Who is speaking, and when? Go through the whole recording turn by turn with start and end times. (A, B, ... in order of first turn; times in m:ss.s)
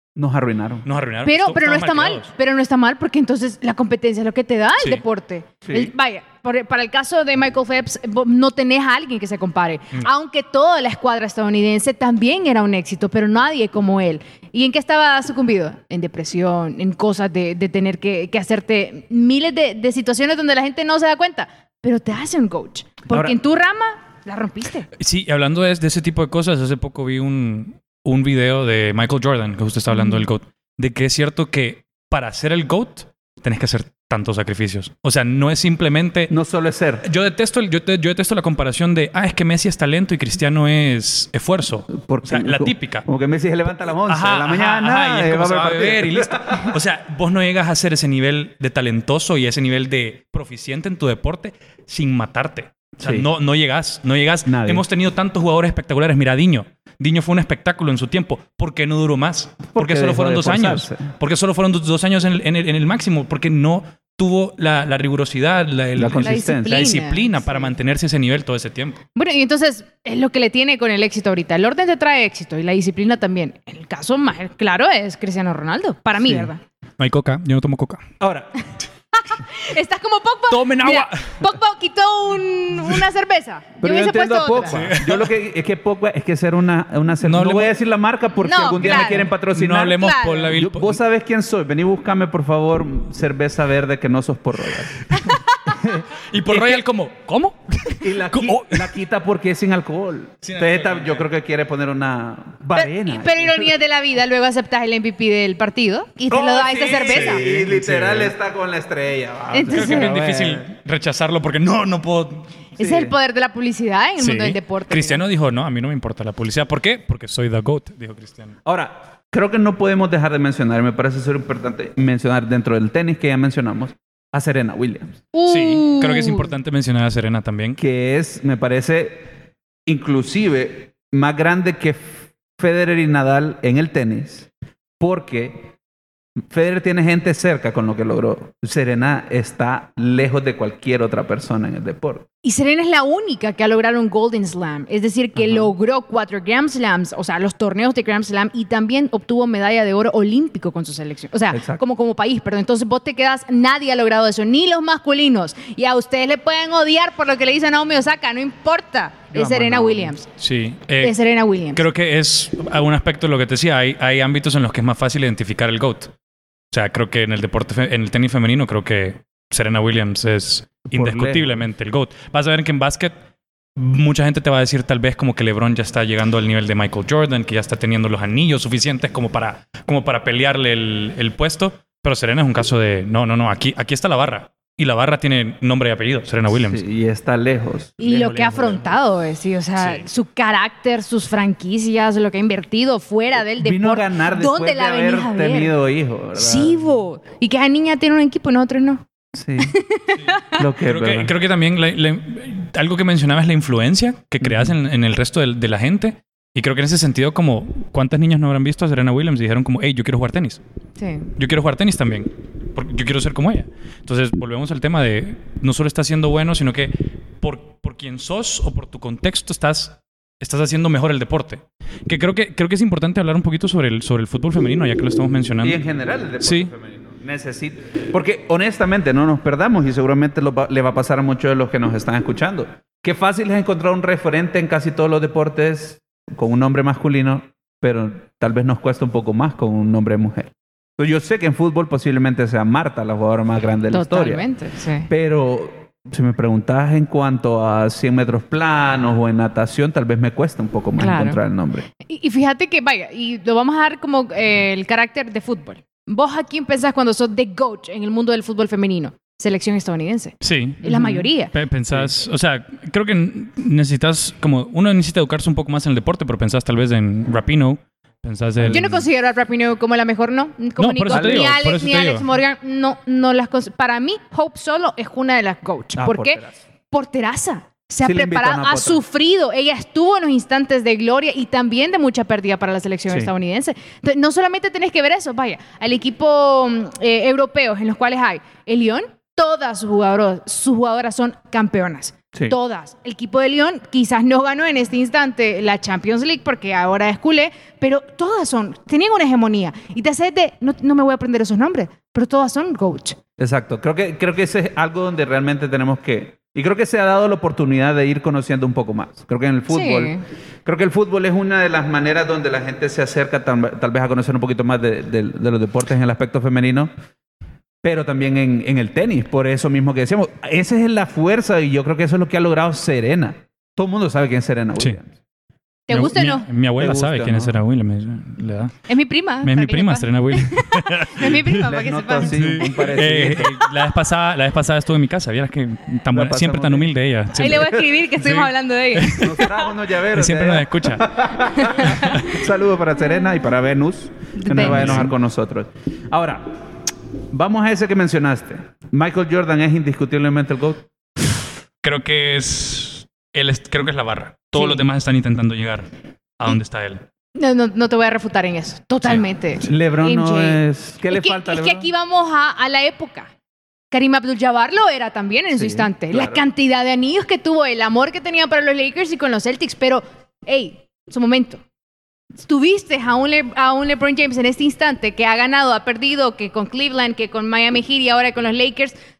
0:00.2-0:00.9 A
0:00.8-0:02.3 B
0:01.2-0:24.9 C
0:05.6-0:05.9 A
0:23.1-0:23.3 A
0:25.0-0:36.3 B
0:29.9-0:30.2 C
0:36.3-0:37.0 A
0:37.0-0:43.0 B
0:41.9-0:46.8 A
0:44.0-1:09.0 B
0:53.0-0:53.3 A
0:54.4-0:54.8 A
0:59.7-1:01.1 A
1:06.0-1:06.9 A
1:06.2-1:07.6 C
1:09.1-1:16.6 C
1:17.0-1:18.0 B
1:18.2-1:18.5 A
1:19.1-1:24.8 C
1:20.5-1:21.4 B
1:23.8-1:35.1 A
1:24.6-1:25.3 B
1:27.2-1:27.7 B
1:28.4-1:29.3 C
1:28.8-1:31.0 B
1:30.0-1:30.5 C
1:35.2-1:35.7 C
1:35.7-1:36.8 A
1:36.1-1:38.9 B
1:38.0-1:43.7 A
1:40.4-1:41.2 B
1:42.7-1:47.4 C
1:46.3-1:50.6 A
1:46.9-1:48.3 B
1:49.5-1:50.1 C
1:49.6-1:52.5 B
1:52.8-1:55.2 C
1:52.8-1:53.1 A
1:54.2-1:58.6 B
1:58.6-2:05.2 A
2:05.3-2:06.5 C
2:05.4-2:07.8 B
2:07.8-2:09.3 A
2:09.8-2:14.5 A
2:15.0-2:15.7 A
2:16.5-2:22.2 A
2:22.4-2:40.3 C
2:25.4-2:25.7 A
2:31.5-2:31.8 A
2:39.3-2:40.1 A
2:40.4-2:41.2 B
2:41.0-2:41.8 C
2:41.7-2:46.1 B
2:46.7-2:53.1 B
2:50.8-2:51.6 A
2:53.8-3:06.8 B
3:06.5-3:08.8 A
3:08.0-3:15.7 C
3:09.8-3:10.0 B
3:13.6-3:16.8 A
3:16.3-3:19.0 C
3:19.3-3:19.7 A
3:19.6-3:20.6 C
3:20.2-3:30.6 B
3:20.6-3:21.3 A
3:24.4-3:24.7 A
3:31.0-3:31.3 C
3:31.4-3:45.8 B
3:45.6-4:04.4 A
3:46.4-3:46.7 B
4:03.9-4:05.1 C
4:05.1-4:11.9 A
4:11.0-4:11.4 C
4:12.0-4:21.5 C
4:20.4-4:29.0 B
4:20.8-4:21.2 A
4:28.6-4:28.9 A
4:28.6-5:03.2 C
4:30.8-4:32.2 B
4:31.1-4:31.6 A
4:35.9-4:36.6 A
4:38.0-4:39.0 A
5:03.4-5:16.9 A
5:09.7-5:10.2 C
5:17.8-5:25.1 A
5:25.9-5:26.5 C
5:25.9-5:28.8 B
5:26.8-5:27.6 A
5:28.9-5:33.0 C
5:29.4-5:31.6 B
5:31.4-5:33.6 A
5:32.2-5:39.4 B
5:36.1-5:36.9 A
5:37.3-5:39.6 C
5:39.1-5:46.6 A
5:40.1-5:41.1 B
5:41.4-5:42.3 C
5:41.9-5:42.4 B
5:44.4-5:45.1 C
5:44.5-5:45.1 B
5:47.3-5:50.9 A
5:51.8-5:57.0 B
5:54.6-5:54.8 C
5:57.3-6:03.3 C
5:59.6-6:01.9 A
6:03.9-6:11.6 C
6:05.5-6:06.4 A
6:12.4-6:19.0 C